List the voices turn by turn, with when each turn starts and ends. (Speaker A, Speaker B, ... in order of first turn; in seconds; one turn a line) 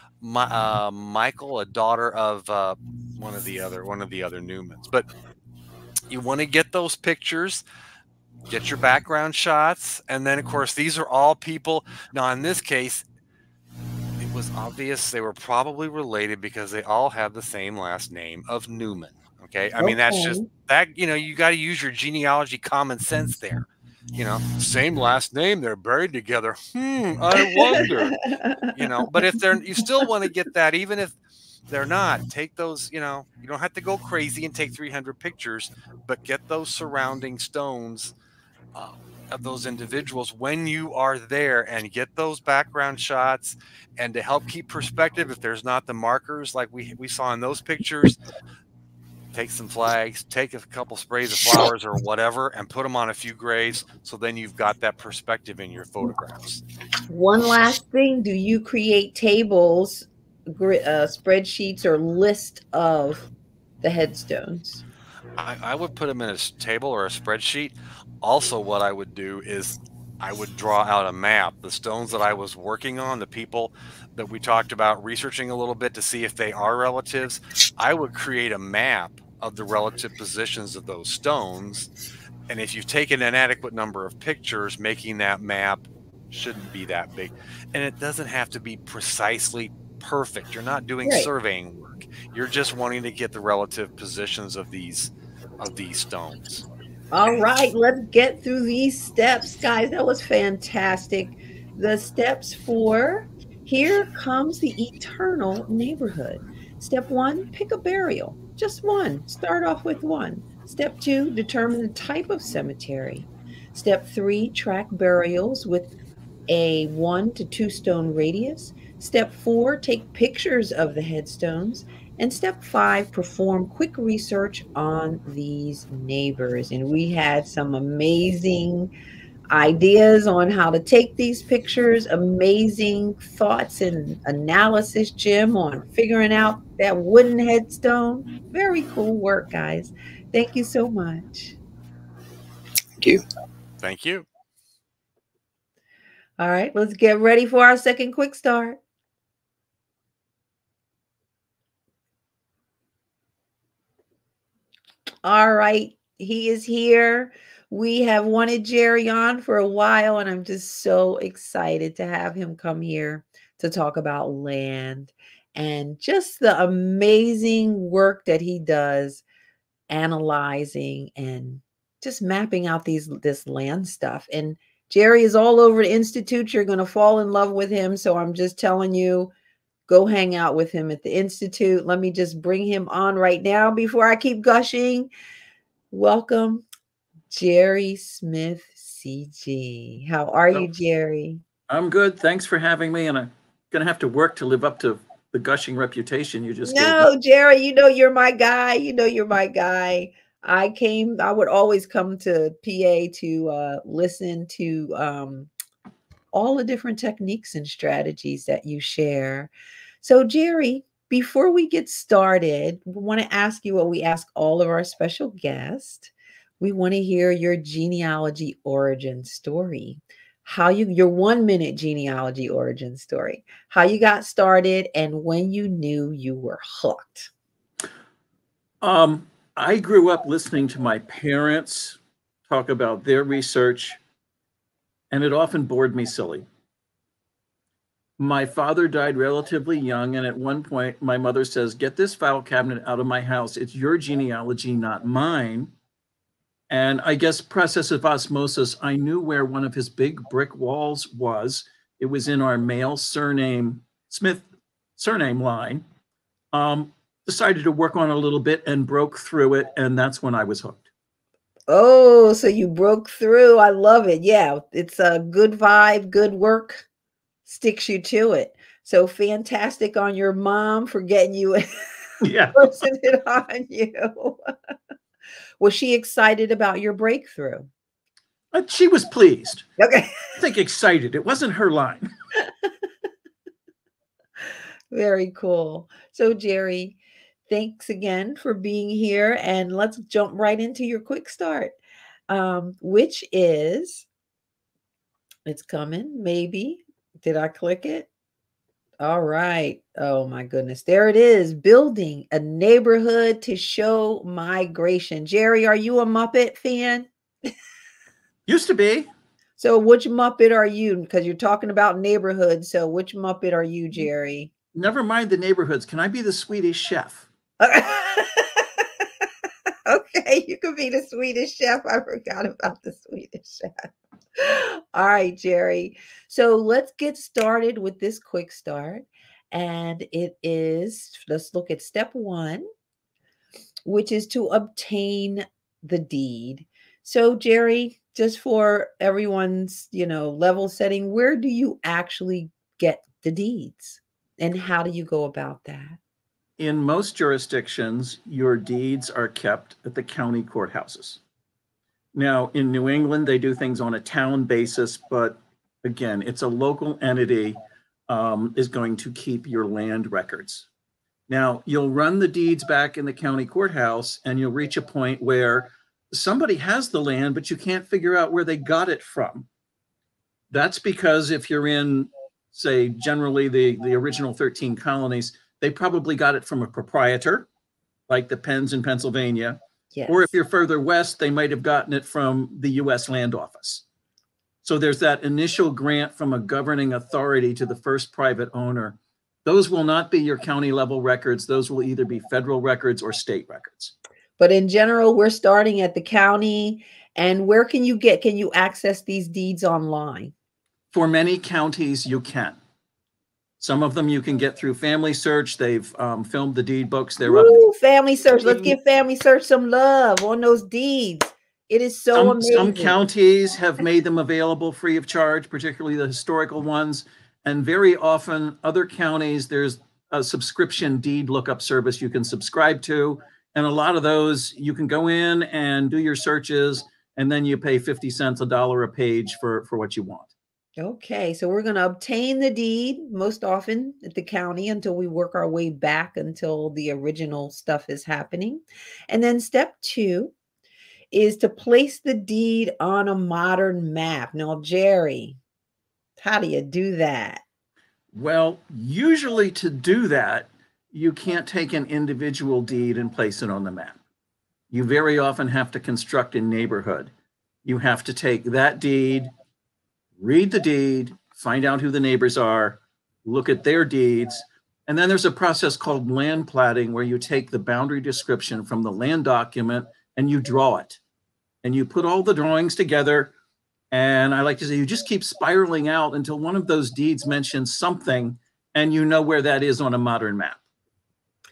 Speaker A: 0.2-5.1
Speaker A: 6.1-7.6
Speaker A: 8.5-13.0
Speaker A: 14.2-31.1
Speaker B: 19.8-20.5
Speaker B: 27.7-29.1
Speaker A: 31.7-38.1
Speaker A: 38.8-48.2
Speaker A: 49.3-56.6
Speaker B: 57.1-63.3
Speaker B: 63.8-64.8
Speaker A: 65.4-81.9
Speaker A: 82.5-96.7
Speaker B: 97.1-115.9
Speaker B: 116.5-128.9
Speaker B: 129.5-141.6
Speaker A: 143.8-144.3
Speaker B: 146.4-148.8
Speaker B: 155.2-169.2
Speaker B: 169.9-179.3
Speaker B: 179.9-185.1
Speaker B: 185.9-186.6
Speaker B: 187.3-191.4
Speaker C: 191.7-197.1
Speaker B: 196.6-205.5
Speaker B: 206.3-227.3
Speaker C: 228.8-234.0
Speaker C: 235.1-236.5
Speaker C: 238.2-245.7
Speaker C: 246.7-255.8
Speaker C: 256.5-260.9
Speaker B: 261.7-266.9
Speaker B: 267.5-274.5
Speaker C: 272.2-272.7
Speaker B: 275.6-277.7
Speaker C: 278.5-279.7
Speaker B: 279.8-280.2
Speaker C: 280.4-282.1
Speaker B: 284.9-287.0
Speaker B: 287.5-291.8
Speaker B: 292.3-294.1
Speaker B: 295.5-298.1
Speaker B: 299.0-307.1
Speaker C: 308.5-309.1
Speaker B: 309.6-314.5
Speaker C: 314.7-317.3
Speaker B: 317.6-319.0
Speaker B: 319.9-332.7
Speaker B: 333.9-346.0
Speaker C: 346.6-351.2
Speaker C: 352.1-357.6
Speaker C: 358.1-360.7
Speaker C: 361.3-369.5
Speaker C: 370.5-377.5
Speaker C: 378.1-383.8
Speaker B: 379.9-380.4
Speaker C: 384.6-393.9
Speaker B: 394.4-400.3
Speaker C: 400.9-402.6
Speaker C: 403.6-407.6
Speaker B: 407.2-413.0
Speaker C: 408.4-408.8
Speaker C: 412.1-430.3
Speaker B: 430.8-440.3
Speaker B: 441.1-445.4
Speaker B: 446.2-447.4
Speaker C: 448.1-454.0
Speaker C: 454.7-457.1
Speaker C: 457.6-459.3
Speaker C: 460.2-471.0
Speaker C: 471.6-473.3
Speaker C: 473.9-480.6